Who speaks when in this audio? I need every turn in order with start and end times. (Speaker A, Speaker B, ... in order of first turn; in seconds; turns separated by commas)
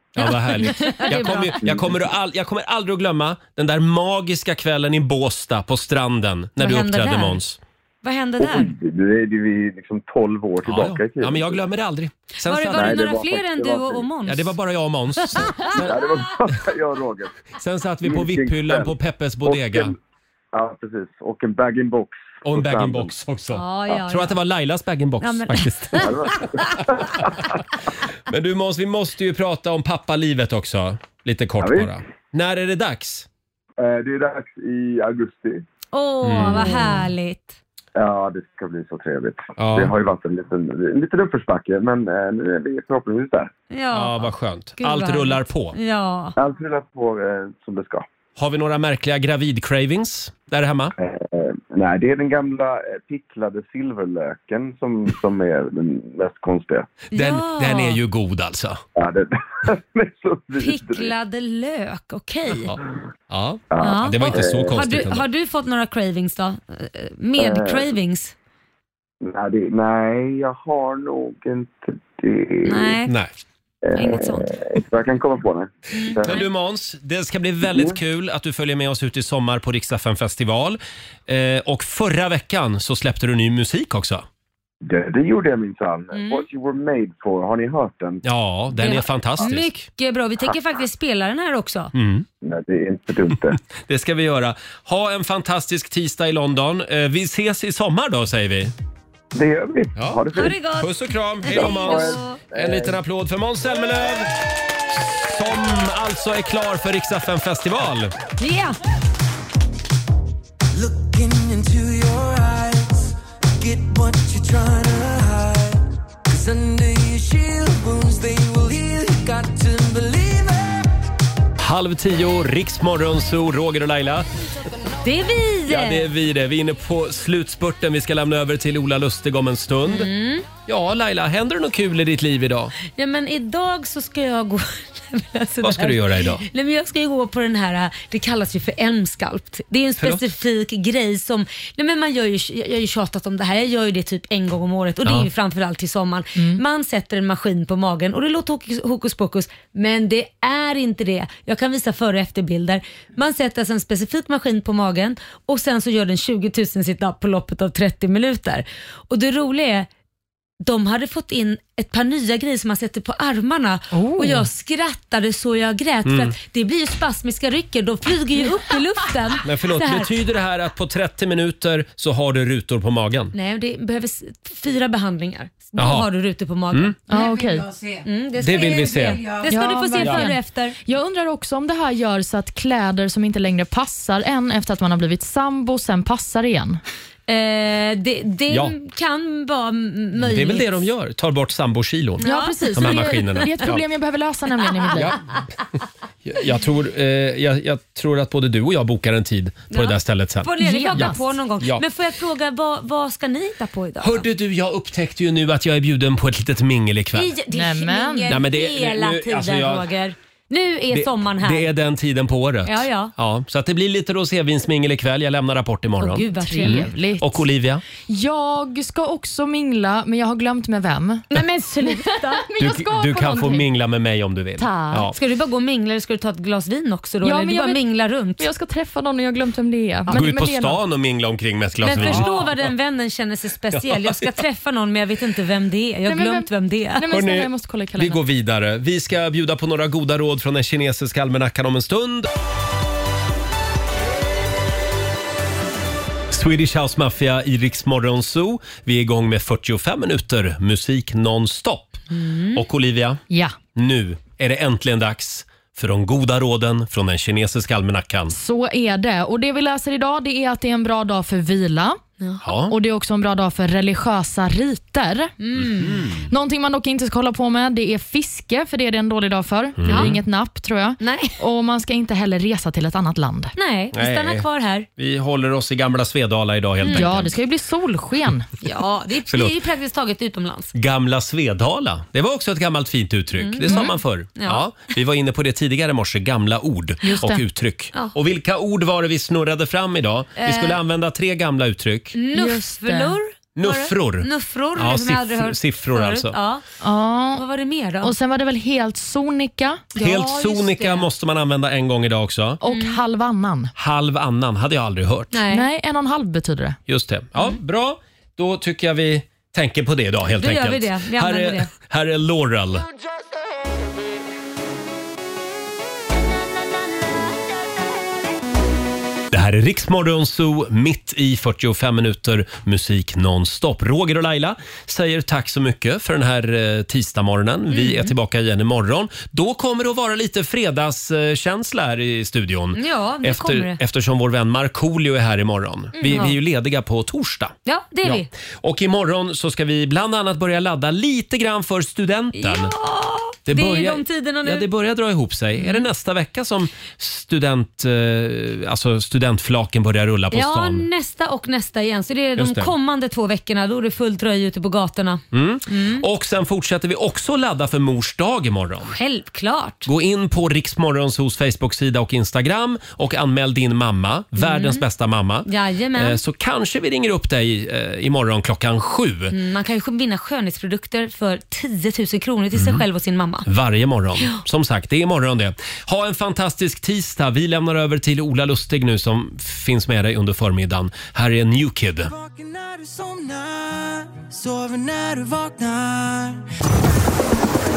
Speaker A: 0.1-7.6, Speaker B: 0.2-1.6, Speaker C: 1.1-2.1, Speaker B: 6.6-7.4, Speaker B: 8.0-8.7, Speaker C: 8.4-11.6, Speaker A: 10.6-13.1, Speaker B: 12.4-14.6, Speaker C: 12.7-14.1, Speaker A: 14.2-16.0, Speaker B: 15.2-15.8, Speaker C: 15.7-17.3, Speaker A: 17.6-19.9, Speaker C: 18.0-19.9, Speaker C: 20.5-23.1, Speaker A: 22.4-26.1, Speaker B: 23.5-24.4, Speaker B: 25.2-26.5, Speaker C: 26.0-27.5, Speaker A: 28.3-33.3, Speaker C: 31.6-32.0, Speaker C: 33.8-35.6, Speaker B: 35.9-37.6, Speaker A: 36.2-36.8, Speaker C: 37.9-43.5, Speaker A: 39.6-39.9, Speaker B: 43.7-46.3, Speaker A: 43.9-45.8, Speaker C: 46.4-48.0, Speaker A: 48.4-50.9, Speaker C: 51.0-56.9, Speaker A: 57.1-58.8, Speaker B: 57.1-58.0, Speaker C: 59.0-61.1, Speaker B: 60.6-62.8, Speaker A: 63.3-65.2, Speaker C: 63.7-64.8, Speaker B: 63.8-68.3, Speaker C: 67.4-67.9, Speaker C: 69.2-73.0, Speaker B: 72.6-73.1, Speaker A: 73.0-73.3, Speaker C: 73.8-76.4, Speaker B: 74.0-74.5, Speaker B: 75.9-76.5, Speaker A: 76.2-84.2, Speaker C: 77.6-78.0, Speaker C: 84.8-88.2, Speaker B: 86.1-86.5, Speaker A: 88.2-89.8, Speaker B: 88.8-91.9, Speaker A: 91.9-92.3, Speaker C: 92.4-93.6, Speaker A: 93.7-98.7, Speaker C: 99.3-100.6, Speaker A: 100.0-104.3, Speaker B: 100.3-102.4, Speaker C: 101.5-103.0, Speaker A: 104.9-108.1, Speaker B: 108.4-108.8, Speaker D: 110.7-120.9, Speaker A: 121.6-124.3, Speaker B: 125.0-126.1, Speaker A: 125.7-130.1, Speaker B: 129.9-130.5, Speaker A: 130.7-132.7, Speaker B: 132.9-159.9, Speaker A: 135.6-136.4, Speaker B: 160.6-170.1, Speaker E: 163.9-164.5, Speaker A: 166.0-166.3, Speaker A: 169.4-173.3, Speaker B: 173.3-177.0, Speaker A: 175.8-176.1, Speaker E: 177.1-177.7, Speaker D: 177.1-178.0, Speaker B: 178.0-180.8, Speaker A: 178.4-179.2, Speaker D: 178.9-179.4, Speaker E: 179.5-186.8, Speaker A: 180.0-180.3, Speaker B: 187.3-190.8, Speaker A: 188.5-188.7, Speaker A: 190.2-192.2, Speaker B: 192.2-193.1, Speaker E: 192.2-195.2, Speaker A: 192.7-193.8, Speaker A: 196.2-201.8, Speaker B: 199.7-204.2, Speaker E: 200.6-201.2, Speaker A: 204.0-207.3, Speaker B: 207.1-211.7, Speaker E: 207.5-208.3, Speaker A: 208.3-209.9, Speaker A: 210.9-217.8, Speaker B: 212.7-213.1, Speaker B: 216.0-216.9, Speaker E: 216.4-217.4, Speaker E: 218.1-223.7, Speaker B: 221.3-222.4, Speaker A: 222.6-225.1, Speaker E: 224.6-225.1, Speaker B: 225.1-228.4, Speaker E: 227.2-227.8, Speaker E: 228.4-230.8, Speaker A: 230.1-232.7, Speaker B: 231.8-237.0, Speaker E: 231.9-232.2, Speaker A: 233.7-234.4, Speaker E: 236.1-236.5, Speaker E: 237.0-238.2, Speaker A: 237.1-242.3, Speaker A: 246.3-253.2, Speaker B: 252.1-252.6, Speaker E: 253.3-253.6, Speaker A: 253.7-258.3, Speaker E: 258.3-262.0, Speaker A: 262.4-262.7, Speaker E: 262.7-265.3, Speaker B: 265.4-266.0, Speaker A: 265.6-266.3, Speaker E: 266.3-273.5, Speaker A: 269.8-270.2, Speaker B: 269.9-270.2, Speaker B: 271.0-271.4, Speaker B: 273.6-274.9, Speaker A: 273.9-274.4, Speaker A: 275.0-277.3, Speaker B: 276.8-277.2, Speaker E: 276.9-278.5, Speaker B: 278.6-280.7, Speaker A: 279.3-279.6, Speaker A: 280.7-292.1, Speaker B: 283.4-284.6, Speaker E: 283.7-283.9, Speaker E: 287.0-287.4, Speaker B: 290.4-290.8, Speaker B: 292.1-296.6, Speaker E: 292.3-293.1, Speaker A: 293.6-296.4, Speaker E: 296.8-297.4, Speaker B: 297.3-298.1, Speaker E: 298.0-299.9, Speaker B: 299.9-301.1, Speaker A: 300.0-302.6, Speaker E: 302.6-303.7, Speaker B: 302.7-303.0, Speaker A: 303.8-305.4, Speaker B: 305.3-305.6, Speaker E: 305.5-306.8, Speaker A: 306.9-312.8, Speaker B: 310.4-311.7, Speaker A: 319.3-342.7, Speaker B: 327.7-328.1, Speaker B: 332.7-333.8, Speaker B: 336.0-336.3, Speaker B: 337.6-338.3, Speaker B: 342.4-344.7, Speaker A: 343.5-350.9, Speaker B: 350.3-356.1, Speaker A: 352.4-352.7, Speaker A: 355.3-359.0, Speaker B: 358.9-359.9, Speaker A: 359.9-369.3, Speaker B: 364.4-364.8, Speaker B: 365.4-366.2, Speaker B: 369.3-373.5, Speaker A: 372.5-372.8, Speaker A: 373.4-382.1, Speaker D: 382.0-386.4